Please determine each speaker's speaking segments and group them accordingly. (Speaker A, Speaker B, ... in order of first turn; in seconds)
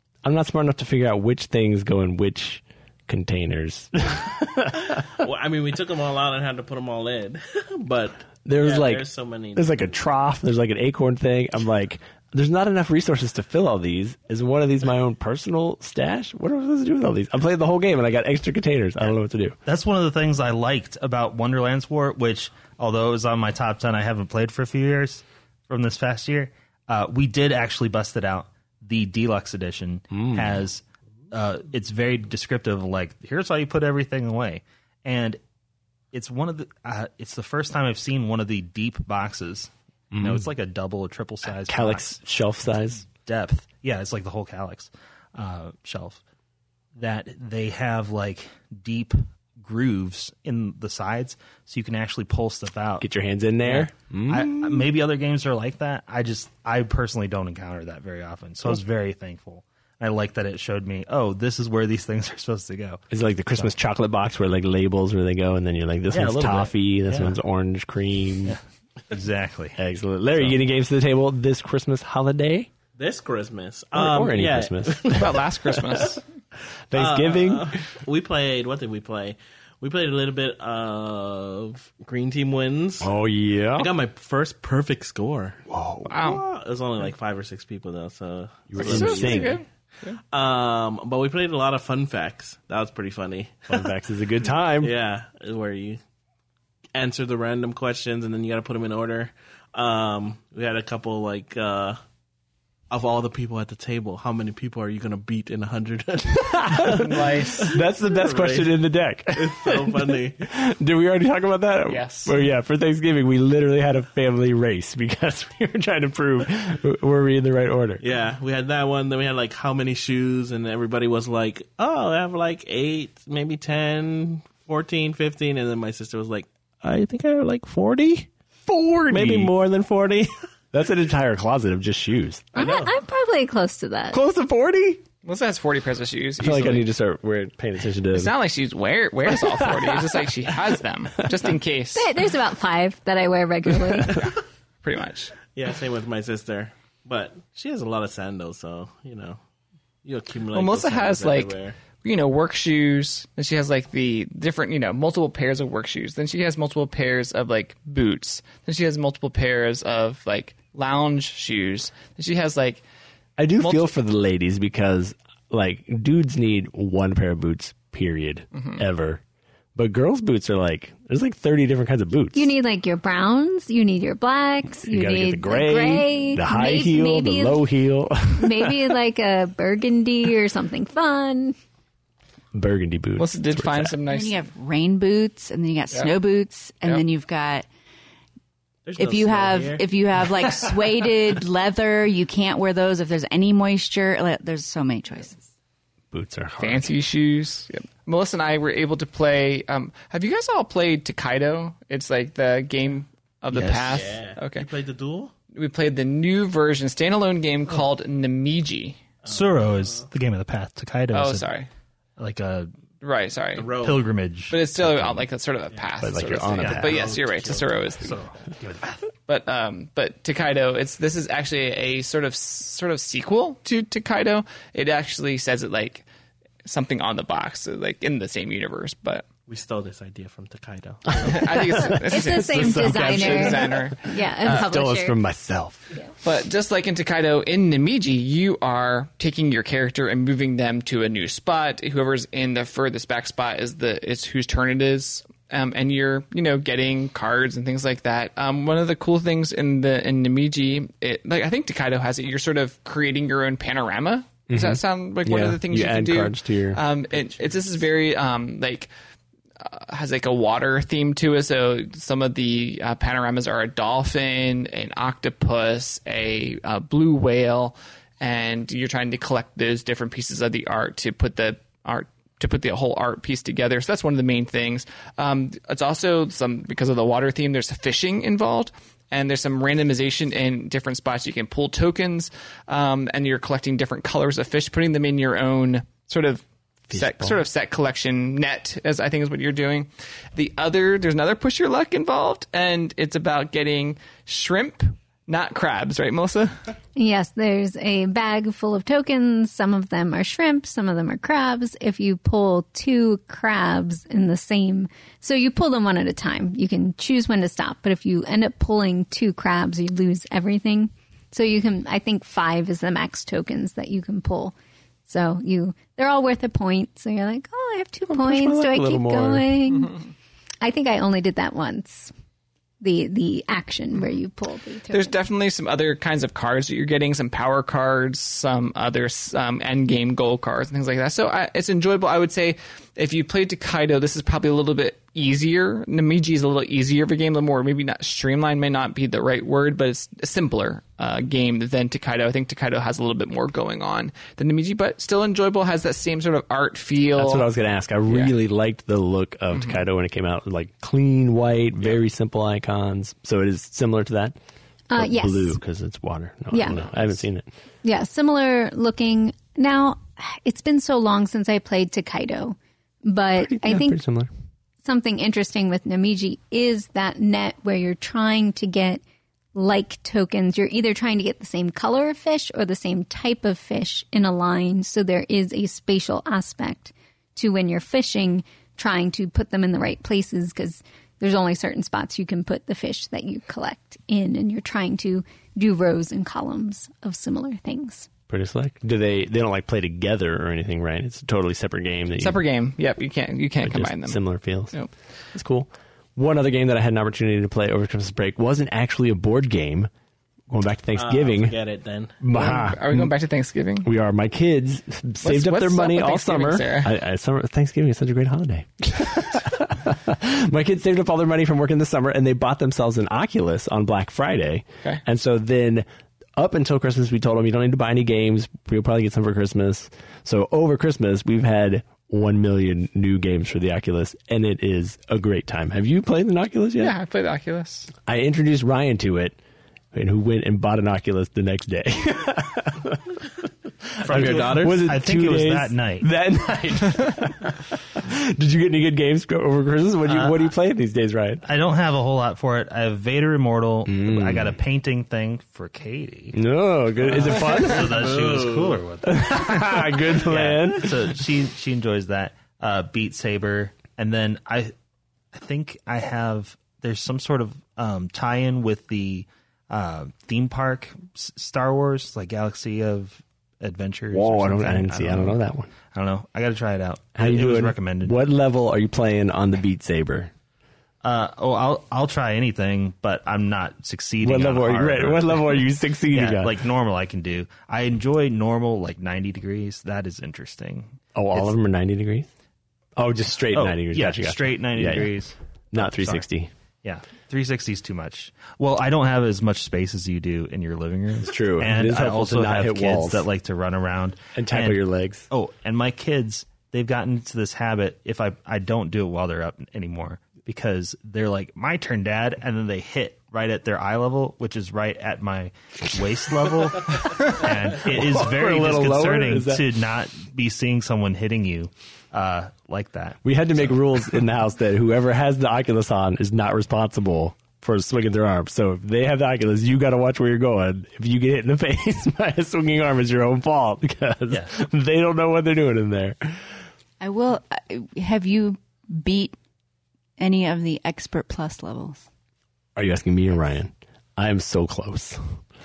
Speaker A: 0.2-5.2, 8.4-19.6, 30.1-30.6, 40.1-40.4, 41.5-43.0, 53.0-54.9, 63.1-68.6, 69.8-72.7, 73.9-75.5, 76.9-77.8, 83.0-83.9, 85.7-86.3, 88.7-89.6, 93.7-94.9, 106.4-118.0, 128.7-129.5, 130.7-132.8, 134.1-135.0, 136.4-138.3, 139.3-140.0, 163.4-169.2, 169.7-172.5, 174.8-179.0, 182.5-183.9, 196.1-196.9, 216.0-217.1, 231.3-233.8, 234.4-235.9, 254.5-256.8, 286.9-287.4, 318.1-319.5, 347.1-354.4, 354.9-357.4, 363.4-364.3, 388.3-392.4, 393.6-394.8, 395.3-399.9, 400.5-401.6, 402.2-403.1, 403.8-426.9, 428.0-429.4, 429.9-433.2, 434.0-441.4, 443.9-444.6, 446.3-448.0, 449.0-451.1, 464.1-465.7, 467.2-470.3, 474.2-476.6, 481.1-482.3, 482.9-485.1, 485.7-486.5, 491.2-493.3, 494.3-495.2, 507.8-509.6, 513.2-526.4, 532.8-535.3
Speaker B: 5.2-9.9, 73.0-75.4, 76.9-83.1, 83.7-89.6, 90.3-93.9, 94.8-96.0, 96.9-102.0, 102.9-108.8, 109.3-110.4, 118.0-128.3, 129.1-130.3, 132.6-132.9, 145.5-149.4, 150.0-151.8, 188.8-189.8, 203.5-205.3, 209.2-210.0, 213.5-214.1, 216.8-217.9, 229.5-231.9, 400.9-402.2, 434.0-434.9, 447.2-448.8
Speaker C: 19.6-35.4, 36.1-46.2, 47.0-53.1, 53.6-63.7, 66.1-67.4, 68.4-69.8, 70.3-70.6, 209.2-211.5, 212.2-212.7, 213.8-215.3, 218.0-219.1, 434.1-436.1, 440.1-440.4, 441.4-446.4, 447.0-454.7, 455.3-465.4, 465.9-468.2, 471.0-481.5, 483.5-486.2, 486.8-513.7
Speaker D: 75.1-76.2, 86.1-86.4, 88.8-90.2, 106.8-107.7, 111.9-112.3, 135.2-136.8, 138.1-142.1, 144.8-145.3, 150.5-162.8, 163.6-163.9, 168.5-168.8, 183.2-184.5, 196.6-204.7, 205.5-209.0, 211.1-211.7, 213.0-213.7, 214.5-218.2, 219.2-226.0, 226.6-229.2, 231.2-234.6, 236.2-258.9, 259.6-296.5, 324.9-347.5, 348.1-348.3, 349.5-349.8, 392.2-394.2, 402.3-403.9, 405.2-406.9, 426.8-427.9
Speaker E: 132.5-134.2, 141.9-144.2, 172.3-177.6, 178.3-181.6, 231.9-235.2, 296.9-314.5, 315.1-320.0, 320.6-322.1, 322.8-325.1, 354.9-355.6, 356.5-356.8, 357.8-364.0, 364.8-369.0, 369.5-388.1
Speaker F: 184.0-187.7, 188.9-195.5, 527.0-529.4, 530.2-532.0